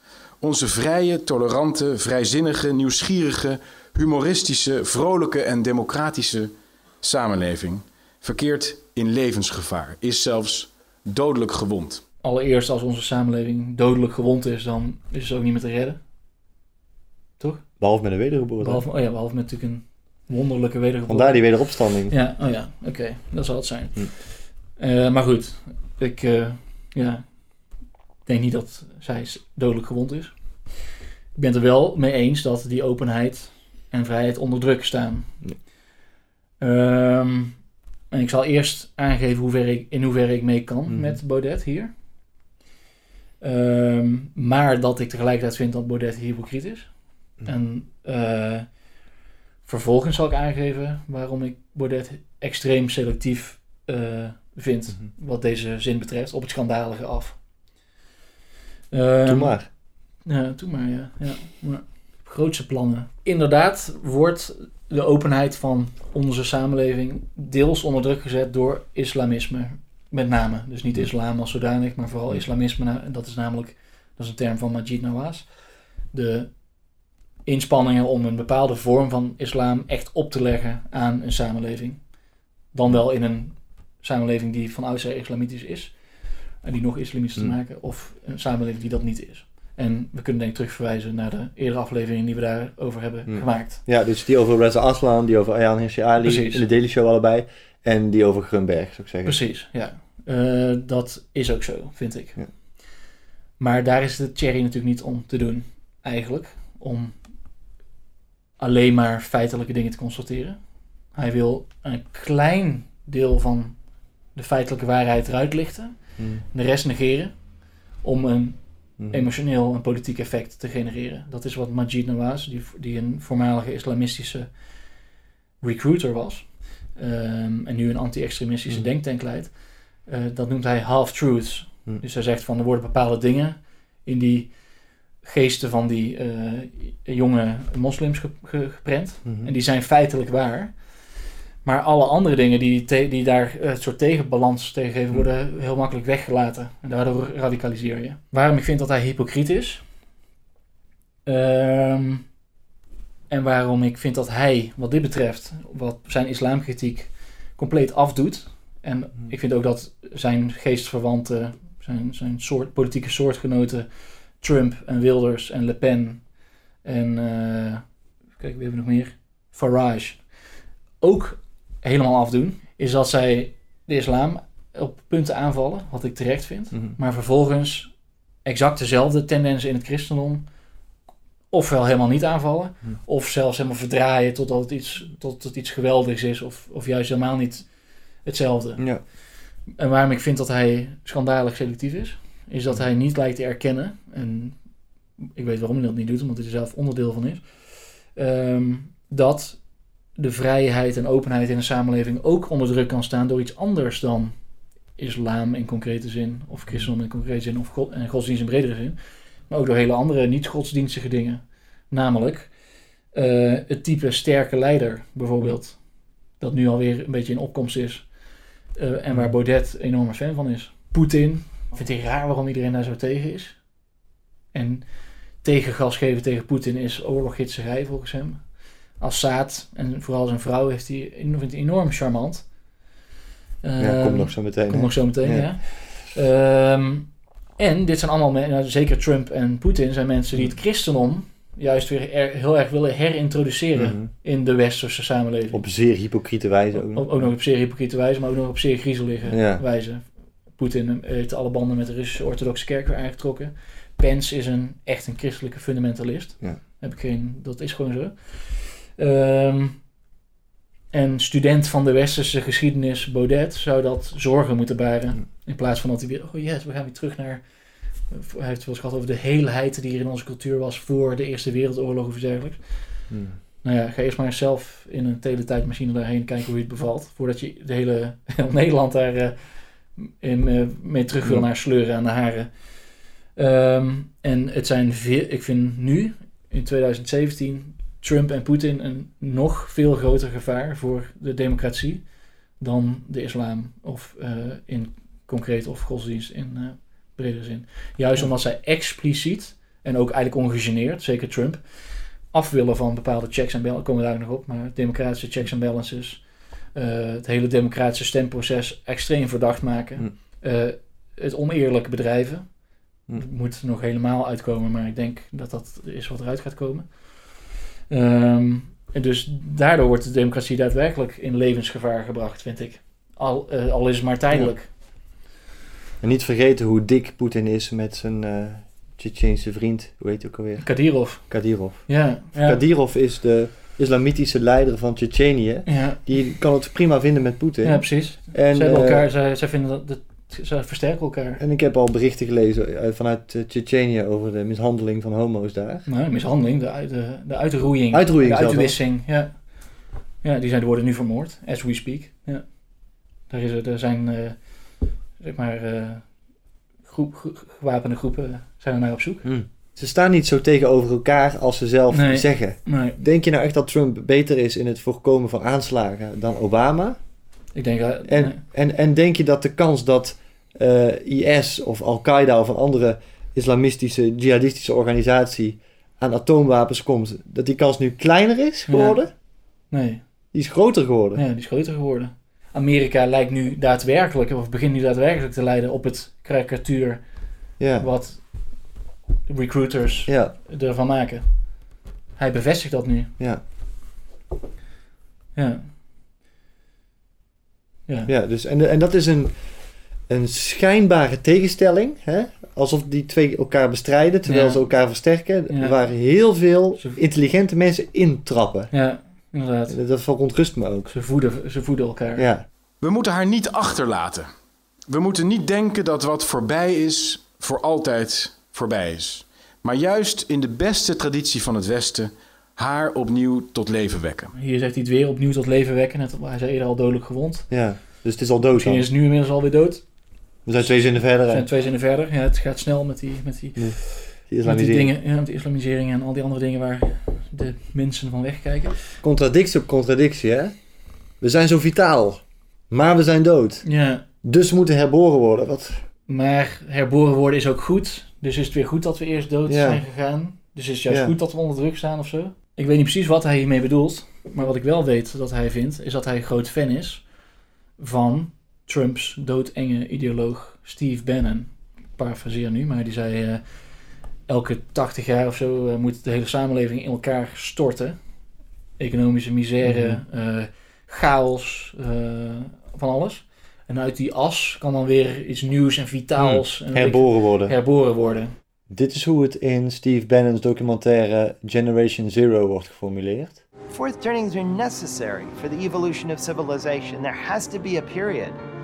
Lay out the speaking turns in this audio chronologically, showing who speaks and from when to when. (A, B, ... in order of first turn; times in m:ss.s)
0:00.4-0:12.0 A
0:12.2-0:16.0 B
0:17.4-0:17.7 B
0:17.8-0:18.8 C
0:18.6-0:24.2 B
0:21.1-0:22.1 C
0:24.8-0:27.2 B
0:28.2-0:30.3 B
0:31.3-0:35.4 B
0:36.6-0:41.9 B
0:40.9-0:41.2 C
0:43.4-0:46.9 B
0:47.4-0:48.7 B
0:49.6-0:57.4 B
0:58.9-0:59.6 B
0:59.2-0:59.7 C
1:00.2-1:15.5 B
1:16.1-1:16.5 B
1:17.4-1:22.1 B
1:22.7-1:33.8 B
1:33.3-1:39.4 C
1:36.2-1:36.6 B
1:39.2-1:42.4 B
1:43.6-1:47.2 B
1:48.6-1:50.6 B
1:51.1-1:53.8 B
1:54.3-1:56.0 B
1:56.2-1:56.4 C
1:56.5-1:57.3 B
1:58.0-2:04.5 B
1:59.0-1:59.3 C
2:05.6-2:14.6 B
2:15.2-2:20.8 B
2:21.6-2:29.8 B
2:31.2-2:32.2 B
2:33.3-2:46.2 B
2:46.8-2:47.8 B
2:48.4-2:50.2 B
2:51.0-2:57.9 B
2:58.4-3:00.4 B
3:01.5-3:07.7 B
3:08.2-3:09.1 B
3:08.8-3:09.0 C
3:09.7-3:14.6 B
3:15.2-3:24.3 B
3:25.0-3:32.5 B
3:33.1-3:35.8 B
3:36.4-3:38.1 B
3:38.7-3:43.6 B
3:44.5-3:52.5 B
3:53.6-4:05.6 B
3:53.8-3:55.8 C
4:03.8-4:04.1 C
4:05.5-4:07.3 C
4:06.7-4:19.8 B
4:09.3-4:09.6 C
4:20.9-4:27.4 B
4:28.0-4:33.1 B
4:33.1-4:33.4 C
4:33.6-4:39.4 B
4:39.9-4:52.0 B
4:52.6-5:12.6 B
5:13.1-5:24.7 B
5:26.0-5:39.0 C
5:30.6-5:32.6 B
5:35.6-5:36.0 B
5:37.6-5:41.4 B
5:41.4-5:45.8 C
5:45.8-5:52.6 B
5:47.9-5:48.8 C
5:53.3-5:56.1 B
5:56.8-5:59.2 B
5:59.2-6:07.0 C
6:01.9-6:03.0 B
6:07.5-6:08.4 B
6:08.1-6:19.1 C
6:18.7-6:19.0 B
6:19.7-6:20.0 B
6:20.3-6:21.2 C
6:21.1-6:27.0 B
6:27.6-6:27.9 C
6:27.8-6:28.7 B
6:29.3-6:31.6 B
6:30.1-6:30.3 C
6:32.2-6:33.1 B
6:35.3-6:35.7 B
6:38.1-6:39.4 C
6:40.1-6:48.7 C
6:44.2-6:44.7 B
6:45.5-6:45.8 B
6:48.7-6:49.8 B
6:49.7-6:50.9 C
6:50.9-6:52.2 B
6:52.2-6:52.4 C
6:52.8-6:54.3 A
6:54.9-7:04.3 A
7:04.4-7:07.5 B
7:07.5-7:08.8 C
7:08.5-7:09.8 B
7:10.4-7:11.5 C
7:11.3-7:18.9 B
7:13.6-7:14.9 C
7:19.0-7:20.5 C
7:21.2-7:23.6 C
7:23.6-7:24.0 B
7:24.2-7:25.8 C
7:26.1-7:37.0 B
7:29.5-7:29.8 C
7:37.8-7:43.4 B
7:44.3-7:48.0 B
7:48.8-7:58.3 B
7:49.6-7:50.0 C
7:56.2-7:57.5 C
7:58.7-8:03.4 C
8:03.7-8:08.4 D